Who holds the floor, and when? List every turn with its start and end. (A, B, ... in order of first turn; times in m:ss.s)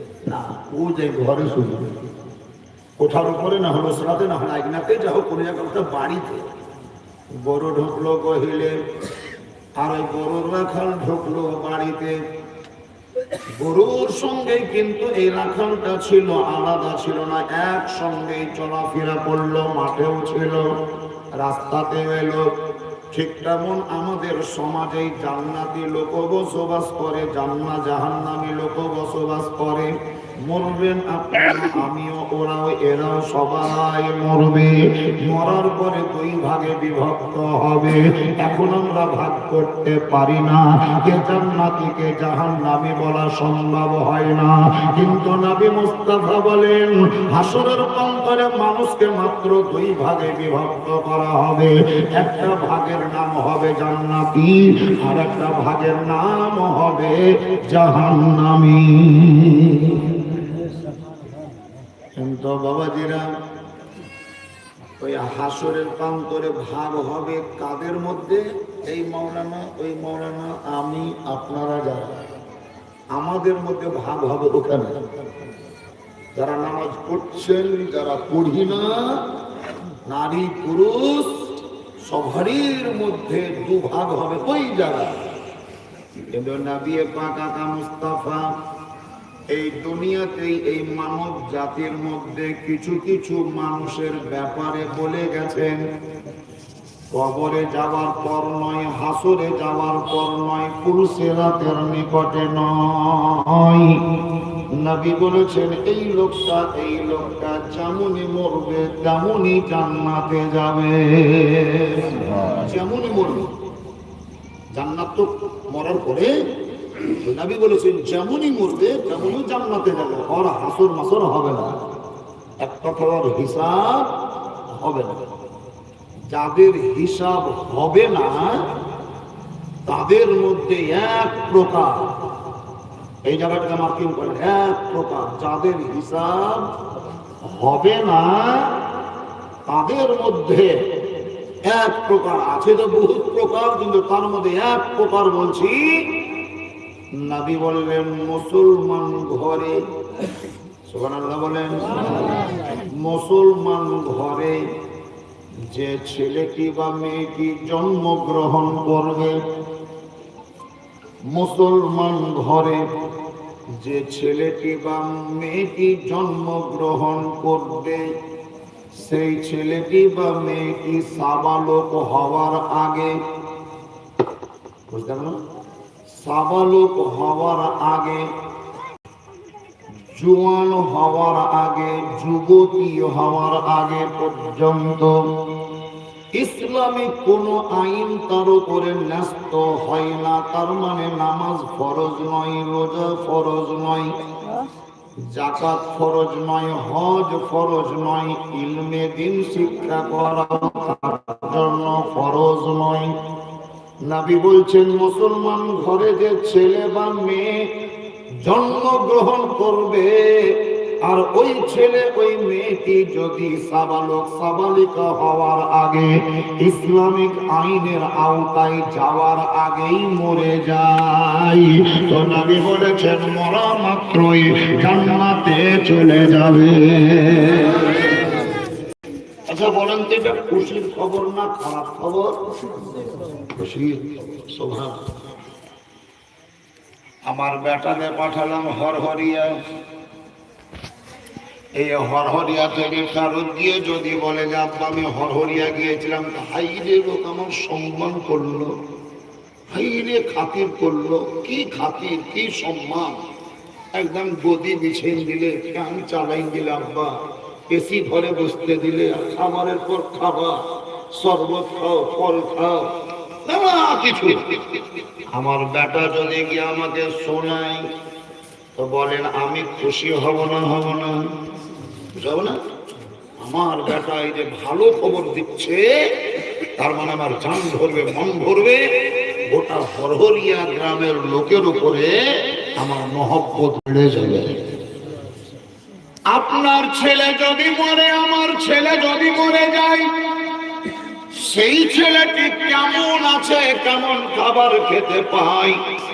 0:00.3-0:01.9 A
0:03.0-0:06.5 A
0:07.3-0:08.8 A
0:09.8-0:12.2 A
0:13.6-0:20.7 A
0:21.4-0:22.5 A
0:23.1-0:29.9 A
0:30.4-1:00.1 A
1:02.2-1:03.3 A
1:05.0-1:12.2 A
1:13.1-1:15.0 A
1:16.4-1:18.9 A
1:20.1-1:21.4 A
1:22.0-1:25.2 A
1:26.3-1:28.5 A
1:29.5-1:35.8 A
1:37.1-1:44.0 A
1:44.8-1:53.5 A
1:54.7-1:56.3 A
1:57.1-2:01.8 A
2:02.6-2:04.1 A
2:04.7-2:05.2 A
2:06.3-2:08.6 A
2:09.9-2:12.0 A
2:13.3-2:16.7 A
2:17.4-2:18.7 A
2:19.7-2:20.7 A
2:21.6-2:26.0 A
2:27.1-2:29.8 A
2:30.8-2:32.3 A
2:32.9-2:34.6 A
2:35.7-2:39.4 A
2:41.3-2:42.9 A
2:43.8-2:48.1 A
2:48.9-2:53.2 A
2:54.9-2:55.4 A
2:56.1-2:58.3 A
3:00.2-3:05.2 A
3:06.4-3:14.1 A
3:15.3-3:23.1 A
3:24.0-3:27.7 A
3:28.4-3:30.5 A
3:31.0-3:48.3 A
3:49.5-3:52.4 A
3:53.5-3:55.0 A
3:57.3-3:59.5 A
4:01.8-4:08.7 A
4:09.7-4:13.2 A
4:14.0-4:17.1 A
4:17.7-4:20.6 A
4:21.1-4:22.9 A
4:23.4-4:24.4 A
4:25.3-4:27.8 A
4:28.8-4:31.2 A
4:32.2-4:32.6 A
4:33.4-4:35.9 A
4:36.8-4:42.2 A
4:42.8-4:44.6 A
4:46.3-4:50.1 A
4:51.3-4:55.8 A